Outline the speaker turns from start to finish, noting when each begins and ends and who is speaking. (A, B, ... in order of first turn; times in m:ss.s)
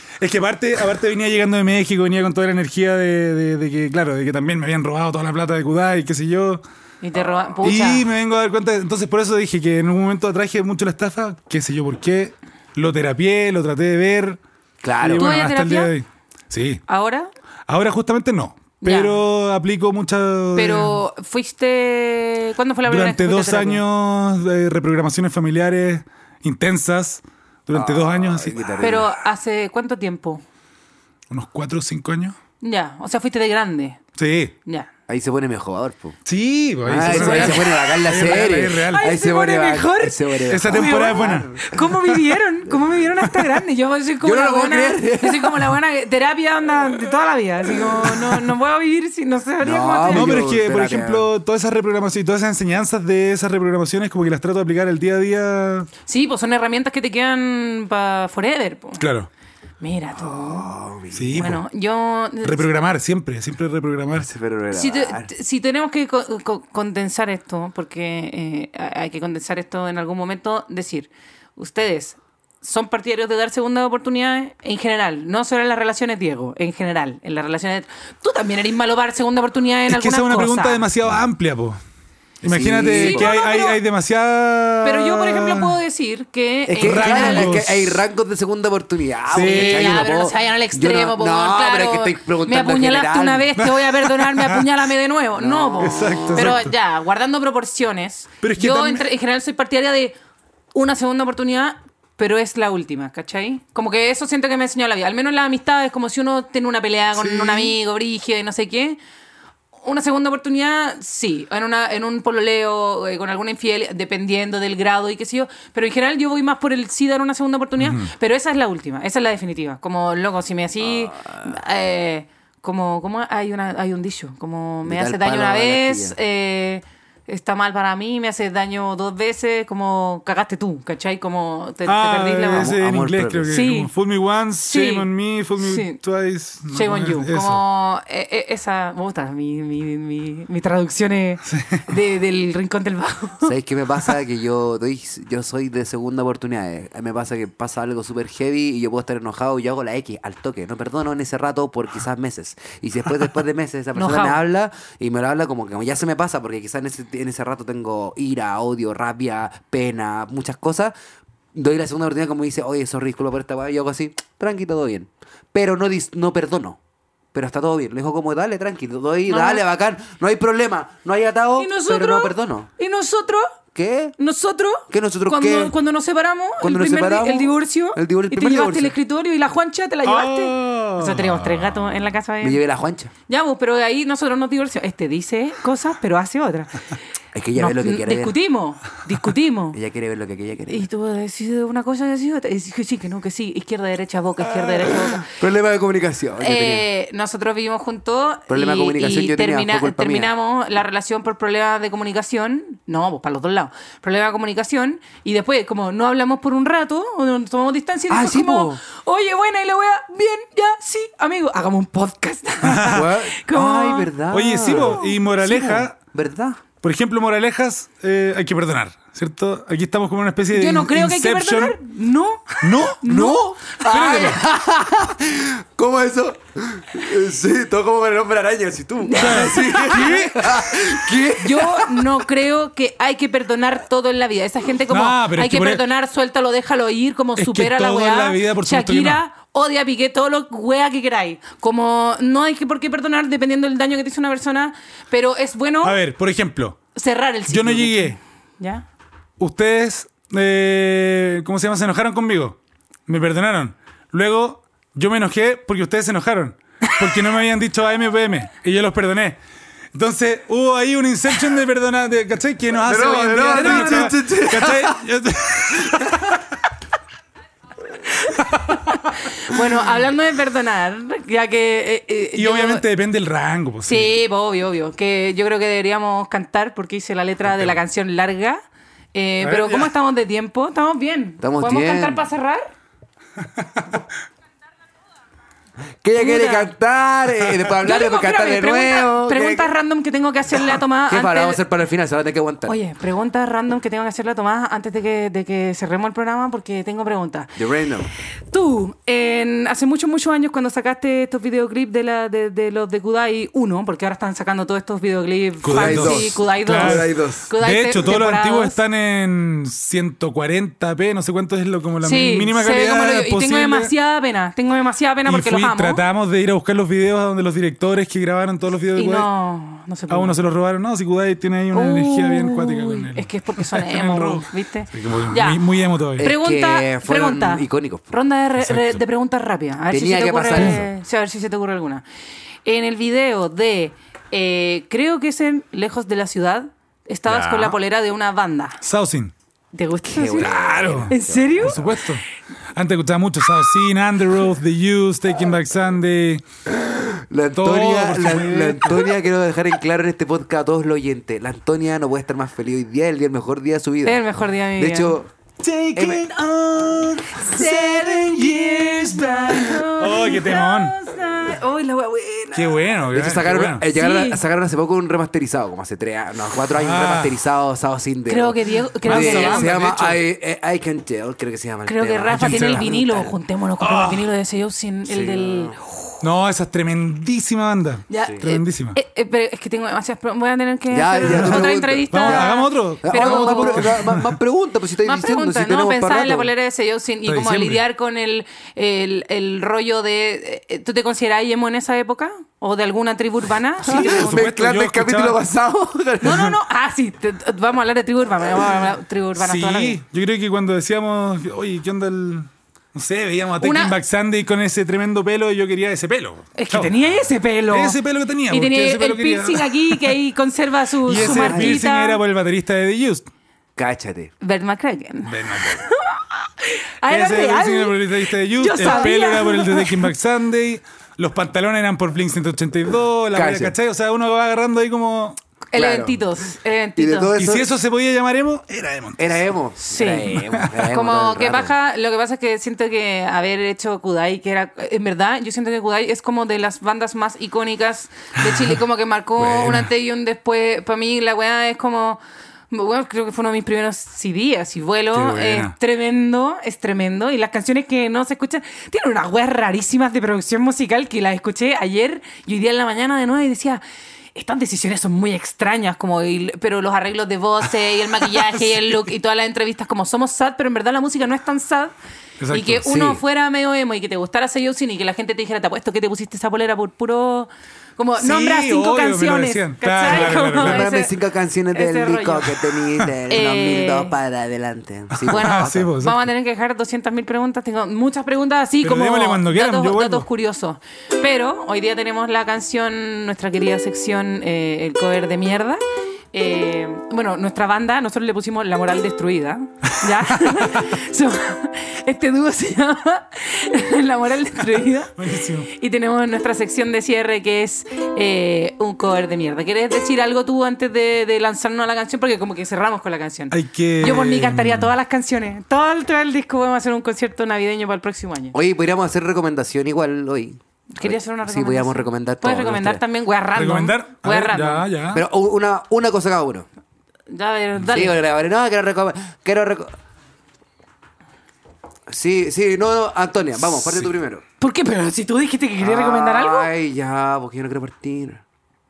0:00.2-0:06.6 A
0:07.0-0:08.0 B
0:07.6-0:14.4 A
0:14.8-0:15.3 C
0:15.0-0:16.8 A
0:15.1-0:15.9 B
0:16.9-0:17.3 B
0:17.7-0:21.0 A
0:18.8-0:19.2 B
0:20.6-0:23.8 B
0:22.8-0:29.1 A
0:27.7-0:29.1 C
0:28.8-0:30.4 B
0:31.3-0:32.4 A
0:32.6-0:34.0 B
0:34.2-0:34.5 A
0:35.1-0:36.2 C
0:36.2-0:39.1 A
0:36.8-0:42.1 C
0:37.0-0:50.4 B
0:40.5-0:41.5 A
0:44.2-0:45.7 C
0:47.9-0:48.3 C
0:49.6-0:51.3 C
0:50.1-0:55.9 A
0:56.1-0:59.0 B
0:59.0-0:59.3 A
0:59.8-1:00.7 B
1:00.2-1:01.6 C
1:01.1-1:01.6 A
1:01.3-1:02.7 B
1:02.4-1:04.3 A
1:04.2-1:05.3 C
1:04.7-1:20.8 B
1:19.9-1:21.8 A
1:22.4-1:25.8 A
1:22.4-1:23.3 C
1:22.9-1:23.8 B
1:24.8-1:27.6 B
1:26.7-1:33.5 C
1:26.8-1:28.0 A
1:29.3-1:30.1 A
1:29.3-1:40.1 B
1:33.6-1:34.6 A
1:35.4-1:36.6 C
1:35.8-1:36.7 A
1:38.4-1:39.0 A
1:40.7-1:49.0 B
1:47.1-1:47.8 A
1:49.8-2:12.7 B
1:57.8-1:58.1 A
2:00.8-2:01.6 C
2:04.8-2:06.2 C
2:11.8-2:17.6 A
2:12.6-2:13.5 C
2:13.5-2:13.9 B
2:14.6-2:16.0 B
2:16.7-2:23.5 B
2:21.4-2:21.8 A
2:23.4-2:40.9 C
2:33.9-2:34.4 B
2:41.5-2:46.8 C
2:47.3-2:52.7 C
2:49.3-2:49.6 B
2:51.6-2:53.5 B
2:53.7-2:54.1 C
2:54.2-3:02.6 B
2:54.9-2:55.7 C
2:56.6-2:58.9 C
3:00.0-3:02.0 A
3:02.4-3:03.1 C
3:03.3-3:06.9 B
3:07.3-3:08.3 C
3:07.6-3:09.8 B
3:09.7-3:10.8 C
3:10.7-3:15.3 B
3:15.2-3:16.8 C
3:16.4-3:35.2 B
3:18.5-3:20.3 C
3:28.1-3:28.8 C
3:32.6-3:33.1 A
3:32.8-3:36.6 C
3:34.3-3:36.0 A
3:36.8-3:41.8 A
3:40.5-3:43.6 B
3:42.6-3:44.4 A
3:43.6-3:52.0 C
3:49.0-3:50.2 B
3:49.1-3:50.7 A
3:51.4-4:06.0 B
3:54.9-3:55.8 A
3:57.4-3:59.2 A
4:05.8-4:06.8 A
4:06.9-4:08.8 B
4:07.5-4:08.2 A
4:09.4-4:19.4 A
4:19.9-4:26.4 A
4:22.8-4:25.0 C
4:23.5-4:24.1 B
4:25.8-4:26.2 C
4:28.1-4:32.8 B
4:32.3-4:34.2 A
4:33.8-4:38.6 B
4:37.5-4:37.8 A
4:39.1-4:42.7 B
4:39.4-4:39.9 A
4:41.4-4:42.2 C
4:43.4-4:43.9 A
4:46.0-4:49.7 C
4:46.2-4:46.7 B
4:47.8-4:51.6 B
4:51.1-4:52.8 C
4:52.7-4:57.6 B
4:57.6-4:58.1 C
4:58.5-5:08.8 B
5:05.6-5:13.9 A
5:05.6-5:07.5 C
5:12.0-5:16.0 B
5:15.2-5:19.3 A
5:18.9-5:20.4 B
5:20.1-5:26.3 A
5:21.7-5:25.6 B
5:26.2-5:32.0 B
5:26.2-5:28.1 C
5:28.6-5:29.0 A
5:29.9-5:30.9 C
5:30.5-5:30.8 A
5:32.6-5:38.8 B
5:37.2-5:37.8 A
5:38.8-5:39.3 A
5:39.7-5:42.0 B
5:40.0-5:41.8 C
5:40.4-5:42.2 A
5:42.7-5:46.4 A
5:46.7-5:54.2 C
5:47.6-5:49.1 A
5:54.0-5:55.2 B
5:54.8-5:55.3 C
5:55.6-6:01.0 A
5:55.9-5:56.2 C
5:57.3-6:02.8 B
6:02.5-6:03.8 A
6:03.1-6:13.3 C
6:03.9-6:04.4 B
6:06.7-6:07.3 A
6:08.3-6:09.7 B
6:09.0-6:10.2 A
6:11.8-6:16.2 B
6:12.3-6:12.9 A
6:13.8-6:14.3 A
6:15.1-6:15.8 C
6:16.2-6:19.0 A
6:18.1-6:24.1 B
6:20.9-6:26.5 C
6:21.3-6:24.3 A
6:25.0-6:34.2 B
6:27.2-6:27.8 A
6:33.8-6:35.4 A
6:33.8-6:36.5 C
6:36.2-6:40.0 B
6:39.4-6:47.0 A
6:43.6-6:44.0 B
6:46.6-6:52.2 B
6:47.7-6:50.2 A
6:51.0-6:53.3 A
6:51.2-6:51.8 C
6:53.8-6:54.3 C
6:54.4-7:00.1 B
6:55.2-6:55.8 A
6:57.1-7:05.4 A
6:58.8-6:59.1 C
7:03.3-7:03.7 C
7:05.7-7:07.4 B
7:05.7-7:06.4 C
7:07.0-7:07.7 C
7:07.4-7:09.4 A
7:09.2-7:11.7 C
7:09.8-7:33.8 B
7:10.4-7:10.6 A
7:18.4-7:18.7 A
7:19.4-7:19.9 A
7:25.1-7:25.7 A
7:34.3-7:41.9 B
7:38.4-7:38.9 A
7:42.4-7:43.0 A
7:42.5-7:51.1 B
7:42.9-7:43.2 C
7:48.2-7:50.9 A
7:50.1-7:55.9 C
7:51.7-7:52.7 B
7:53.3-7:54.1 B
7:55.1-7:56.3 A
7:55.3-8:05.8 B
7:58.8-8:00.3 A
8:06.3-8:28.5 B
8:10.0-8:10.9 A
8:15.2-8:15.7 A
8:23.5-8:24.9 A
8:28.5-8:33.0 C
8:30.9-8:34.8 B
8:33.5-8:35.2 A
8:35.1-8:36.7 C
8:37.3-8:38.2 B
8:37.8-8:40.0 C
8:42.1-8:44.4 C
8:44.6-8:46.7 B
8:45.8-8:48.4 C